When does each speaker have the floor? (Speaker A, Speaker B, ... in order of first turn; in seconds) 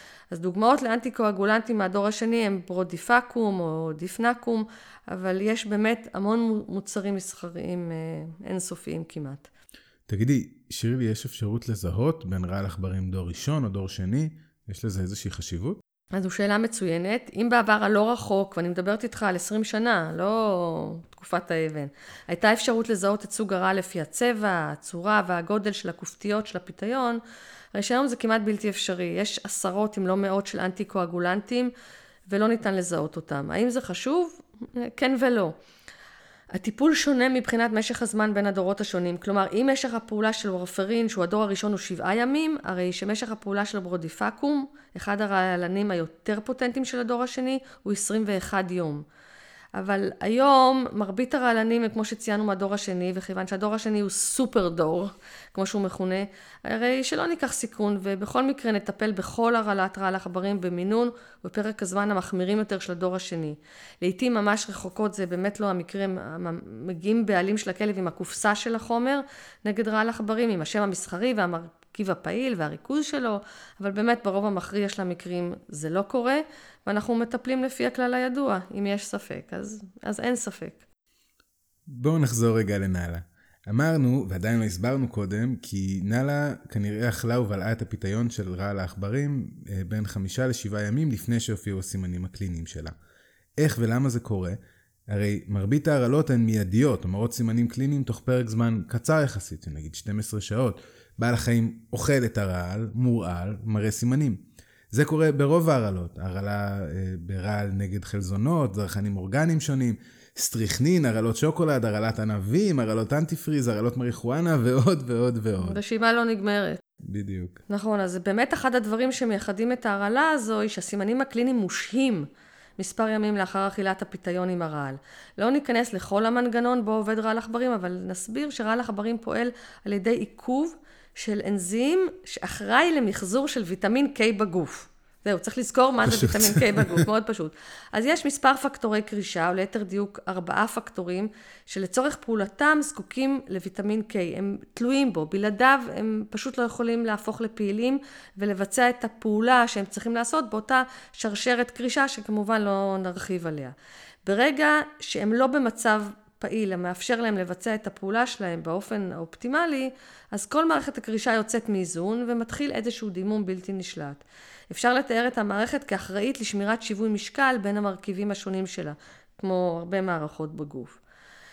Speaker A: 0.3-9.4, 16.1-27.2, 27.7-31.7, 32.3-35.5, 36.5-49.0, 49.8-80.8, 115.6-116.8, 117.7-122.2, 122.8-171.0
Speaker B: 10.1-15.8, 81.9-92.9, 93.6-94.6, 95.1-115.8, 117.0-117.6, 136.0-137.1